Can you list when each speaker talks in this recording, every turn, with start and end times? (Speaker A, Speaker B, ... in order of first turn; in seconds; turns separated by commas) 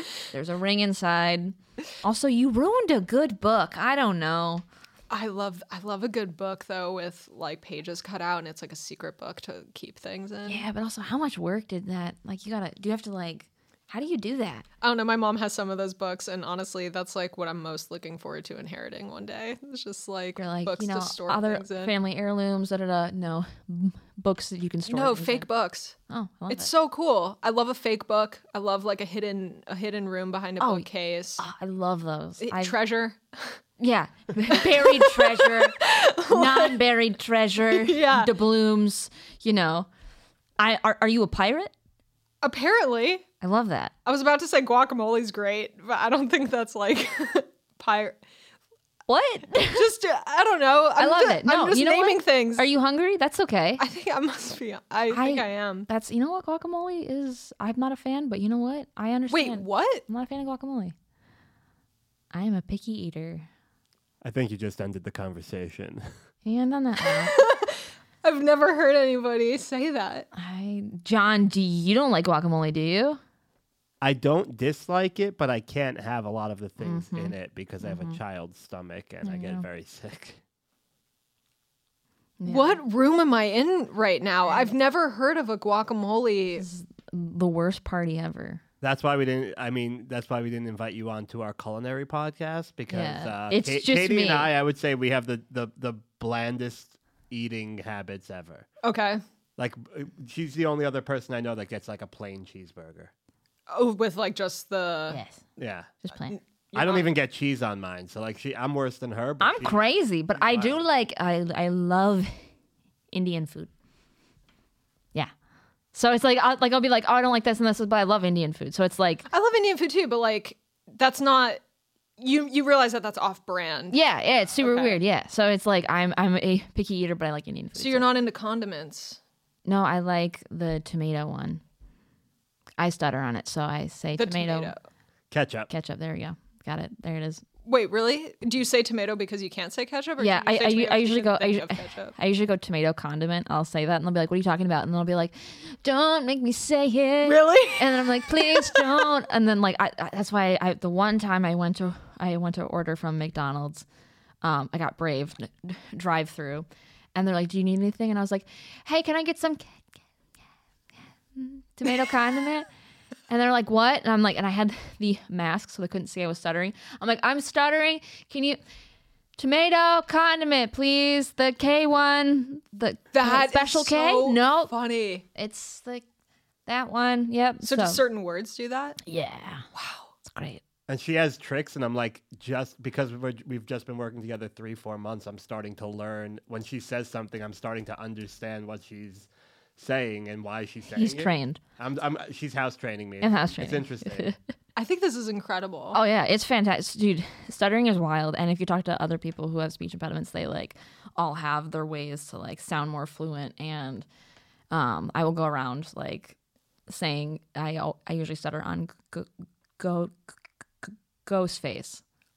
Speaker A: 0.3-4.7, Speaker B: 5.1-10.6, Speaker A: 10.5-14.7, Speaker B: 14.8-21.9, Speaker A: 20.4-25.5, Speaker B: 24.9-26.0, Speaker A: 26.1-26.7, Speaker B: 26.5-31.4, Speaker A: 30.6-30.9, Speaker A: 31.4-32.8, Speaker B: 32.4-33.6, Speaker A: 33.8-39.9, Speaker B: 34.5-36.8, Speaker B: 37.7-38.3, Speaker A: 40.6-41.7, Speaker B: 42.4-43.2, Speaker A: 43.4-43.9, Speaker B: 44.0-48.2, Speaker A: 49.1-49.9, Speaker B: 49.6-52.7, Speaker A: 51.0-53.8, Speaker B: 53.8-55.9, Speaker A: 55.1-61.0, Speaker B: 59.3-60.0, Speaker A: 62.3-63.5, Speaker C: 64.2-66.1, Speaker A: 66.5-67.4, Speaker B: 67.0-70.3, Speaker A: 70.3-73.2, Speaker C: 74.0-80.4, Speaker A: 76.8-78.2, Speaker A: 79.2-79.7, Speaker A: 82.4-82.8, Speaker B: 82.5-86.7, Speaker A: 84.5-84.7, Speaker A: 86.6-88.6, Speaker C: 88.8-98.7, Speaker A: 92.9-94.5, Speaker B: 98.8-99.2, Speaker C: 99.6-103.1, Speaker B: 103.7-105.2, Speaker A: 105.1-105.4, Speaker C: 105.6-105.9, Speaker A: 106.0-106.4, Speaker B: 106.1-107.1, Speaker C: 106.8-109.8, Speaker A: 109.4-112.3, Speaker C: 110.4-110.8, Speaker A: 113.1-113.7, Speaker A: 115.9-119.3, Speaker B: 119.3-121.6, Speaker B: 122.2-124.0, Speaker A: 123.9-128.1, Speaker B: 124.6-125.0, Speaker B: 127.8-129.2, Speaker A: 129.7-131.6, Speaker A: 132.8-134.7, Speaker B: 134.2-134.8, Speaker C: 135.3-135.7, Speaker A: 135.7-137.4, Speaker B: 137.7-142.2, Speaker A: 140.2-153.8, Speaker B: 147.2-149.1, Speaker A: 154.4-159.8, Speaker A: 161.3-162.7, Speaker A: 163.3-168.6, Speaker A: 169.4-174.7, Speaker B: 173.1-175.2, Speaker A: 175.3-176.1, Speaker A: 176.7-178.0, Speaker B: 177.6-179.0, Speaker A: 179.0-179.7, Speaker B: 179.7-180.1, Speaker A: 180.2-180.6, Speaker C: 180.9-194.3, Speaker A: 190.9-191.6, Speaker A: 193.2-194.4, Speaker B: 194.8-196.0, Speaker A: 195.9-204.1, Speaker A: 204.7-206.4, Speaker A: 206.9-210.3, Speaker A: 210.8-212.0